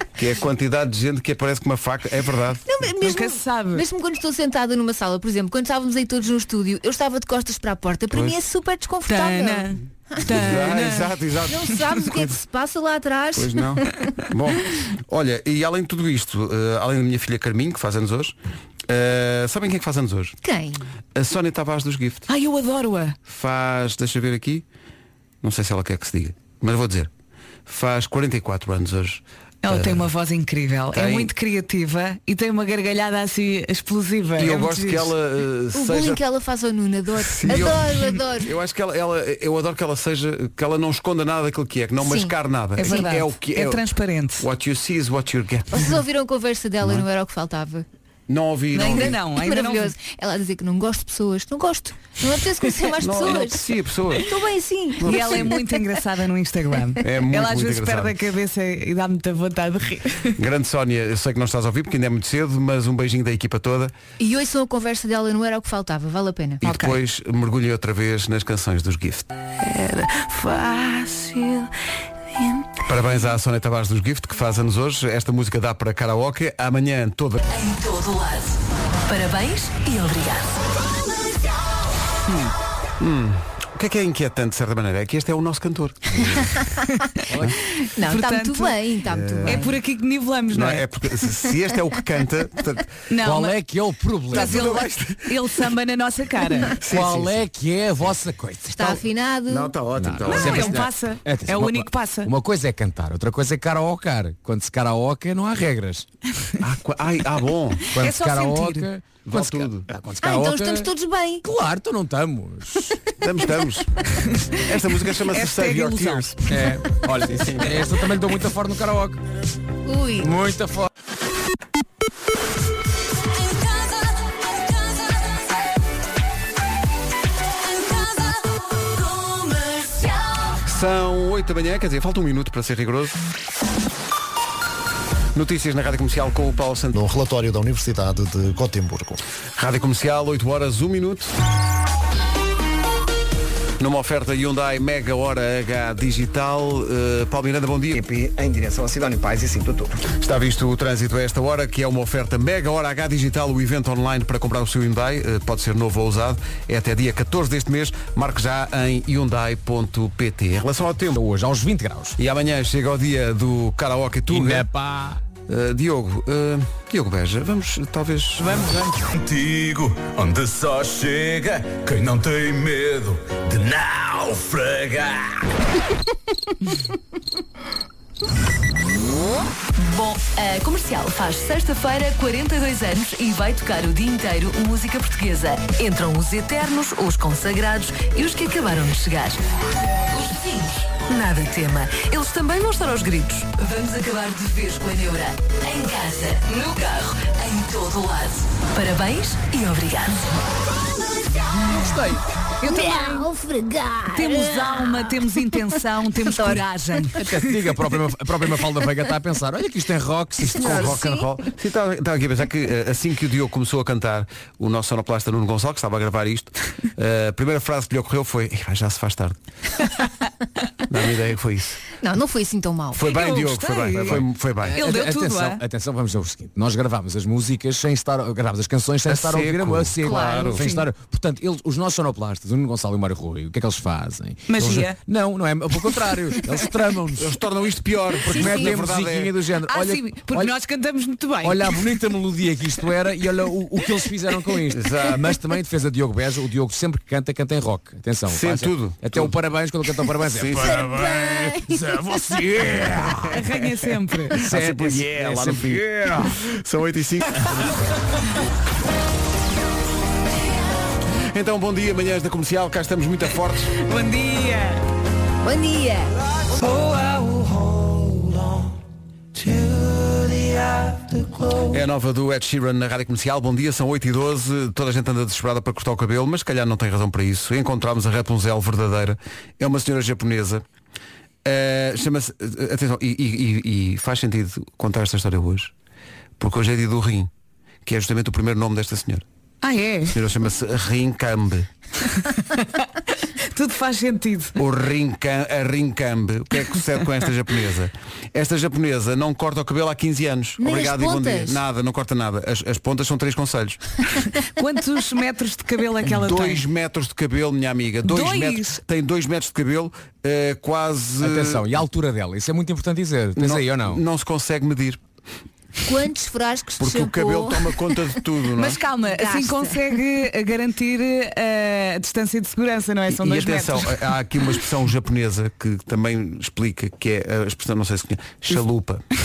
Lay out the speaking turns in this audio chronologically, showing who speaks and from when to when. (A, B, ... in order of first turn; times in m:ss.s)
0:00.2-0:02.6 A
0:02.6-0:10.4 B
0:03.0-0:03.8 C
0:08.1-0:08.4 A
0:09.1-0:11.1 C
0:10.2-0:12.4 A
0:11.5-0:14.0 B
0:13.3-0:18.3 A
0:18.9-0:20.4 A
0:20.4-0:20.8 B
0:21.1-0:22.3 A
0:22.3-0:23.2 C
0:23.2-0:24.6 A
0:25.4-0:27.1 A
0:27.7-0:30.1 A
0:29.6-0:35.1 C
0:30.9-0:31.3 A
0:34.4-0:36.2 A
0:35.7-0:38.5 B
0:37.2-0:43.8 A
0:42.0-0:42.3 B
0:42.8-0:44.4 C
0:44.4-0:46.0 A
0:45.7-0:47.8 B
0:48.3-0:49.2 A
0:48.7-0:49.9 C
0:48.8-0:55.6 B
0:53.0-0:54.3 A
0:55.0-0:55.5 A
0:55.0-1:00.4 C
0:57.0-0:58.2 A
1:00.4-1:03.9 A
1:04.2-1:06.6 B
1:06.6-1:09.3 A
1:09.6-1:11.7 D
1:12.4-1:12.7 D
1:12.8-1:17.4 A
1:17.4-1:20.6 D
1:23.0-1:26.6 A
1:27.8-1:29.7 B
1:28.0-1:28.8 C
1:29.1-1:29.8 A
1:29.4-1:30.8 C
1:30.5-1:32.9 A
1:33.1-1:33.6 C
1:33.2-1:34.7 E
1:34.3-1:35.4 A
1:34.3-1:36.8 C
1:36.8-1:37.5 A
1:36.9-1:39.0 E
1:38.7-1:39.8 B
1:39.5-1:40.8 A
1:40.0-1:46.1 E
1:40.3-1:42.3 C
1:46.6-1:47.9 A
1:47.9-1:50.9 E
1:48.0-1:48.9 C
1:49.2-1:49.9 A
1:50.2-1:51.4 B
1:51.4-1:52.9 E
1:53.2-1:54.0 A
1:54.3-1:54.6 C
1:54.5-1:56.6 A
1:55.3-1:56.3 C
1:56.5-1:59.2 E
1:57.2-1:57.8 A
1:59.8-2:00.3 B
2:00.2-2:00.9 E
2:07.7-2:10.6 D
2:10.6-2:13.2 A
2:15.3-2:16.9 A
2:16.9-2:19.2 F
2:19.6-2:21.3 A
2:23.8-2:28.0 A
2:27.9-2:30.0 G
2:30.1-2:41.2 A
2:41.2-2:42.2 E
2:42.2-2:44.7 A
2:44.3-2:45.2 E
2:45.5-2:48.6 A
2:48.4-2:49.1 C
2:49.1-2:55.4 H
2:59.8-3:09.4 D
3:10.1-3:20.3 D
3:21.7-3:22.2 E
3:22.6-3:23.2 C
3:22.6-3:25.3 B
3:24.1-3:27.6 C
3:26.1-3:27.0 B
3:27.2-3:30.9 E
3:30.4-3:39.4 A
3:30.6-3:31.3 B
3:40.9-3:41.8 A
3:42.0-3:43.1 B
3:42.9-3:44.8 A
3:43.0-3:45.6 C
3:43.9-3:57.4 E
3:49.0-3:50.7 A
3:50.0-3:50.7 B
3:54.5-3:55.0 C
3:57.2-3:59.3 A
3:58.2-4:00.5 E
3:58.3-3:58.7 B
3:59.7-4:01.8 C
4:01.4-4:13.4 E
4:04.7-4:05.4 A
4:08.3-4:09.4 A
4:10.0-4:11.1 A
4:10.6-4:11.8 B
4:13.3-4:14.4 C
4:14.4-4:16.4 E
4:14.4-4:17.8 A
4:21.3-4:23.7 A
4:23.7-4:24.8 C
4:25.4-4:26.1 B
4:31.7-4:40.6 A
4:41.4-4:45.7 A
4:46.4-4:47.3 A
4:47.8-4:49.2 A
4:49.6-4:50.2 C
4:50.1-4:51.7 A
4:52.2-4:54.6 C
4:54.6-5:03.8 A
5:00.6-5:01.6 B
5:04.5-5:06.6 C
5:06.0-5:11.7 A
5:08.0-5:08.8 C
5:11.2-5:14.0 E
5:13.4-5:15.0 A
5:15.8-5:18.0 B
5:16.8-5:18.8 A
5:18.6-5:23.9 C
5:19.0-5:19.8 B
5:23.1-5:29.0 A